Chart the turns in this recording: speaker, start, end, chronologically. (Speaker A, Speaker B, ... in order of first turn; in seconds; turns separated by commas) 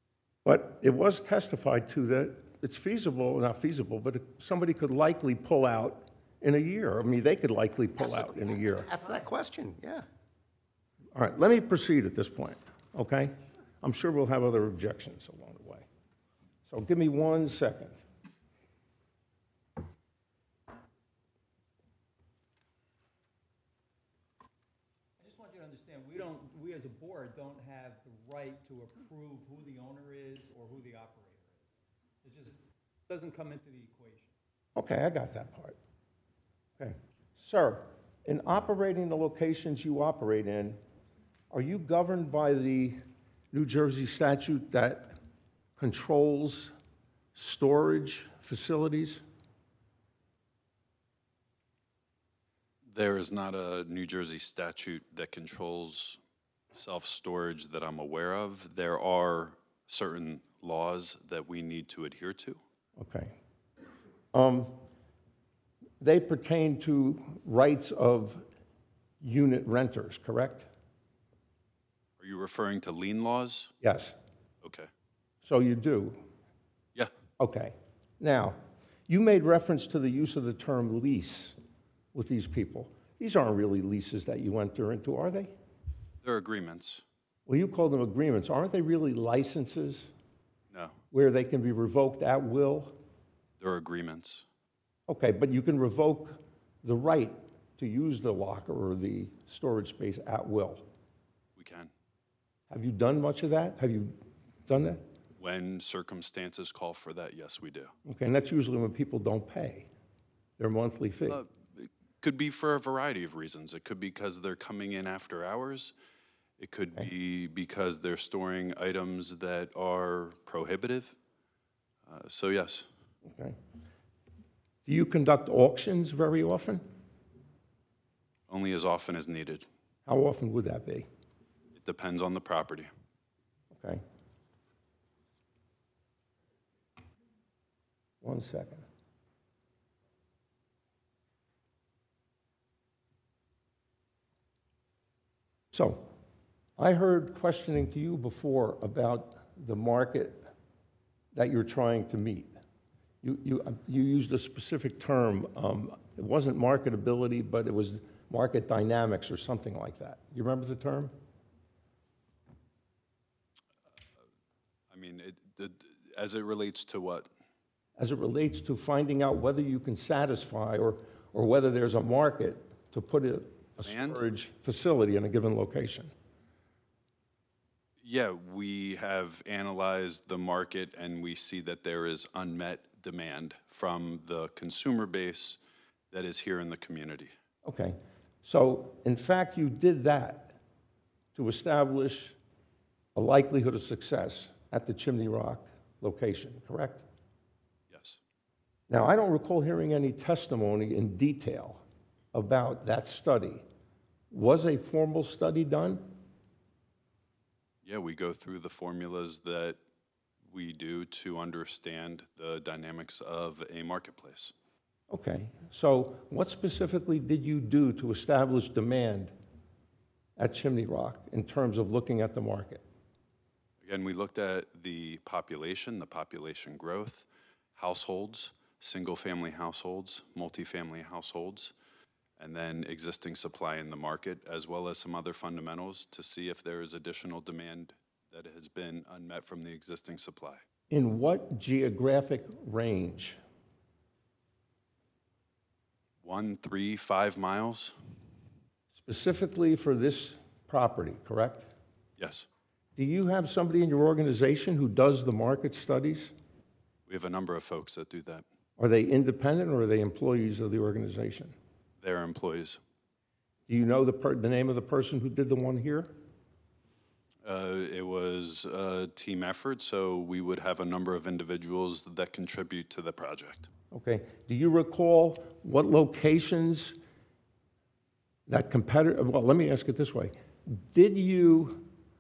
Speaker A: 0.4-8.9, Speaker B: 8.0-10.0, Speaker A: 11.1-15.8, Speaker A: 16.6-18.0, Speaker C: 25.2-31.7, Speaker C: 32.2-34.3, Speaker A: 34.7-35.8, Speaker A: 36.8-40.8, Speaker A: 41.5-43.0, Speaker A: 43.5-45.2, Speaker A: 45.8-46.7, Speaker A: 47.3-49.2, Speaker D: 52.9-56.2, Speaker D: 56.7-62.6, Speaker A: 63.0-63.3, Speaker A: 64.3-64.8, Speaker A: 66.0-68.4, Speaker A: 69.2-70.7, Speaker D: 72.2-73.7, Speaker A: 73.8-74.1, Speaker D: 74.6-74.9, Speaker A: 75.4-76.2, Speaker A: 77.4-78.6, Speaker A: 79.1-81.5, Speaker A: 82.1-85.5, Speaker D: 86.2-87.0, Speaker A: 87.5-90.1, Speaker D: 90.7-91.0, Speaker A: 91.1-93.0, Speaker D: 93.6-94.5, Speaker A: 95.1-100.8, Speaker D: 101.5-101.9, Speaker A: 102.7-104.2, Speaker A: 104.7-105.0, Speaker D: 105.4-107.9, Speaker A: 108.0-109.9, Speaker A: 110.6-111.4, Speaker D: 111.3-115.9, Speaker D: 116.6-121.1, Speaker D: 122.0-122.9, Speaker A: 123.2-123.5, Speaker A: 124.8-126.8, Speaker D: 128.5-129.7, Speaker A: 130.1-131.1, Speaker D: 131.7-132.9, Speaker A: 133.7-134.0, Speaker A: 138.2-138.8, Speaker A: 145.7-146.1, Speaker A: 146.8-150.4, Speaker A: 151.3-152.5, Speaker A: 153.2-161.1, Speaker D: 164.9-167.3, Speaker A: 168.0-176.1, Speaker D: 173.8-174.2, Speaker D: 178.0-187.3, Speaker A: 187.6-190.6, Speaker A: 191.3-192.3, Speaker A: 193.1-197.0, Speaker D: 197.9-198.2, Speaker A: 198.9-201.8, Speaker A: 202.3-203.6, Speaker A: 204.3-206.1, Speaker D: 207.8-209.8, Speaker D: 210.5-214.5, Speaker A: 215.1-219.3, Speaker A: 220.4-222.8, Speaker D: 223.8-231.7, Speaker D: 232.4-240.6, Speaker A: 240.9-243.4, Speaker D: 246.2-247.9, Speaker A: 248.9-251.7, Speaker D: 252.2-252.5, Speaker A: 252.9-256.3, Speaker D: 257.1-258.4, Speaker A: 258.8-261.5, Speaker D: 262.0-262.8, Speaker A: 263.7-266.1, Speaker D: 267.4-273.7, Speaker A: 273.9-276.9, Speaker A: 278.5-281.8